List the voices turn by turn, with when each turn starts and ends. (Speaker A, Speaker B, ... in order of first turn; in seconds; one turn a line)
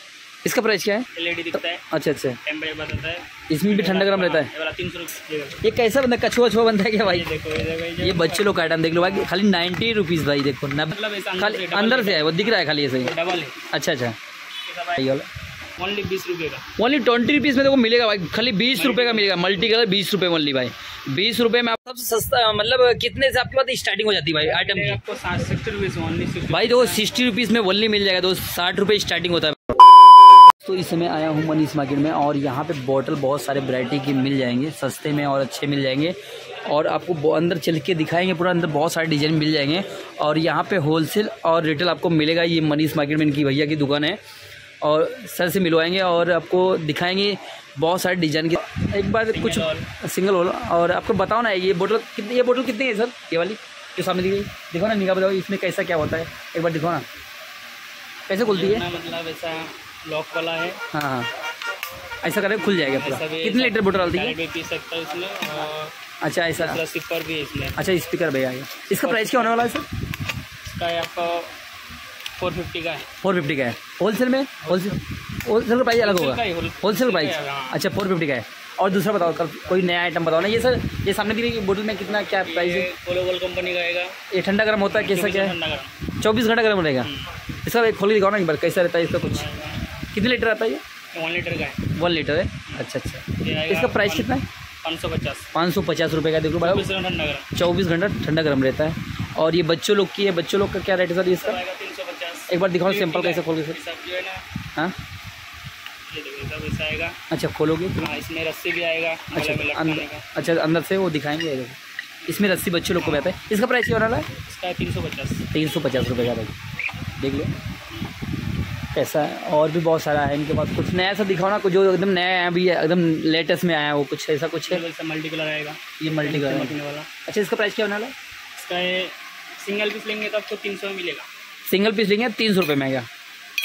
Speaker A: 0.5-2.4
Speaker B: 1.1-1.8
Speaker B: 2.4-5.6
Speaker A: 3.5-4.5
Speaker A: 5.6-7.3
Speaker B: 7.0-9.3
Speaker A: 8.0-13.1
Speaker B: 10.9-13.6
Speaker A: 13.7-14.2
Speaker B: 14.7-15.1
Speaker A: 15.0-15.2
Speaker B: 15.8-16.7
Speaker A: 16.8-25.0
Speaker B: 18.8-19.7
Speaker B: 24.4-27.0
Speaker A: 26.5-29.8
Speaker A: 30.6-44.2
Speaker A: 44.8-57.0
Speaker B: 49.3-49.9
Speaker A: 58.3-58.9
Speaker B: 58.4-60.8
Speaker A: 60.9-61.3
Speaker A: 62.2-64.3
Speaker B: 62.8-65.9
Speaker A: 66.2-66.8
Speaker B: 66.6-67.8
Speaker A: 67.8-69.9
Speaker B: 68.9-69.8
Speaker B: 70.6-71.5
Speaker B: 72.4-73.1
Speaker A: 73.2-82.9
Speaker B: 74.6-75.0
Speaker B: 76.0-77.8
Speaker B: 82.2-84.2
Speaker A: 84.3-85.6
Speaker B: 84.9-86.0
Speaker A: 86.2-89.5
Speaker B: 87.0-87.3
Speaker B: 89.0-90.0
Speaker A: 90.1-90.8
Speaker B: 91.1-91.9
Speaker A: 91.9-94.5
Speaker B: 93.4-94.3
Speaker B: 94.8-95.5
Speaker A: 95.5-96.9
Speaker B: 96.6-97.5
Speaker A: 97.5-101.6
Speaker B: 101.4-104.4
Speaker A: 102.5-103.8
Speaker B: 106.1-107.2
Speaker A: 107.3-108.0
Speaker B: 108.0-110.3
Speaker A: 109.3-114.3
Speaker B: 112.3-113.4
Speaker B: 114.4-115.5
Speaker A: 115.5-116.5
Speaker A: 117.2-117.5
Speaker A: 118.9-124.8
Speaker B: 124.7-127.1
Speaker A: 126.0-128.1
Speaker B: 128.6-131.3
Speaker A: 131.7-133.1